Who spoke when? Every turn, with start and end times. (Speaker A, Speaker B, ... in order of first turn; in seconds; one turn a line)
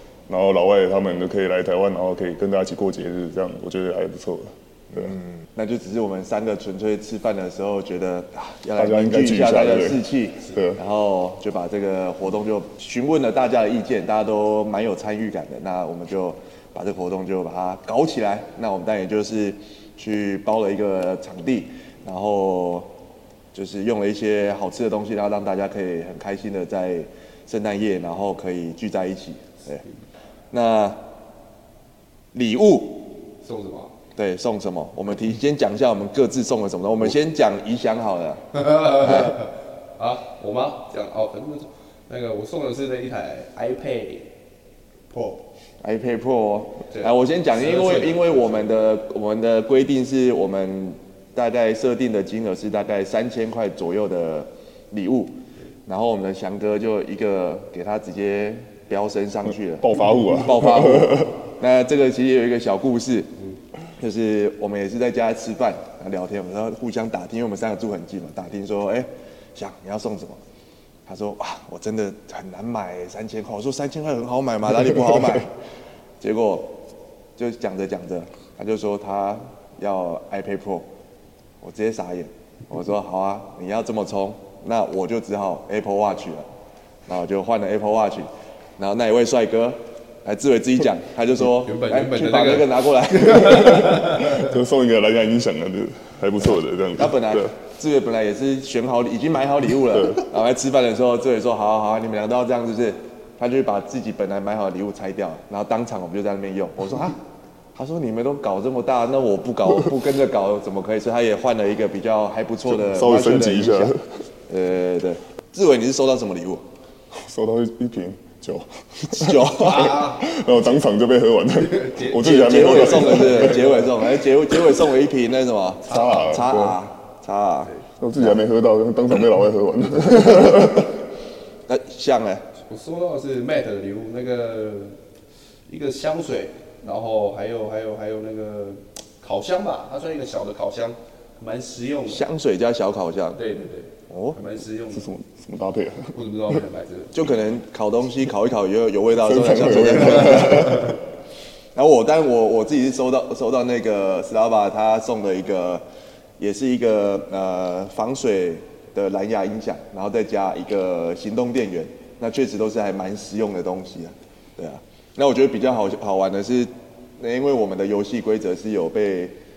Speaker A: 0.3-5.2
Speaker B: 4.9-22.9
Speaker A: 8.8-10.8
Speaker B: 23.5-29.8
Speaker B: 30.5-31.0
Speaker B: 32.3-33.1
Speaker C: 33.4-33.9
Speaker B: 34.2-39.3
Speaker C: 38.6-44.3
Speaker C: 45.1-45.4
Speaker B: 45.8-63.3
Speaker C: 46.9-48.7
Speaker A: 59.8-61.3
Speaker B: 64.0-70.4
Speaker B: 71.1-75.5
Speaker B: 76.2-76.8
Speaker B: 77.4-80.9
Speaker B: 81.6-86.5
Speaker B: 87.1-94.1
Speaker C: 91.5-94.5
Speaker A: 94.1-97.5
Speaker B: 97.0-107.2
Speaker A: 99.9-100.2
Speaker B: 107.8-114.0
Speaker A: 112.7-114.0
Speaker B: 114.5-116.6
Speaker A: 117.1-123.9
Speaker B: 119.1-120.1
Speaker C: 119.6-120.3
Speaker C: 121.7-123.9
Speaker B: 122.2-128.4
Speaker C: 125.8-126.5
Speaker A: 125.9-126.8
Speaker A: 128.0-131.0
Speaker B: 131.7-132.4
Speaker C: 132.7-135.0
Speaker C: 135.7-142.2
Speaker B: 142.1-143.4
Speaker C: 143.4-145.1
Speaker B: 144.1-144.4
Speaker A: 144.9-146.2
Speaker C: 146.1-147.2
Speaker B: 147.1-151.0
Speaker A: 149.2-151.0
Speaker B: 151.8-155.8
Speaker B: 156.4-169.3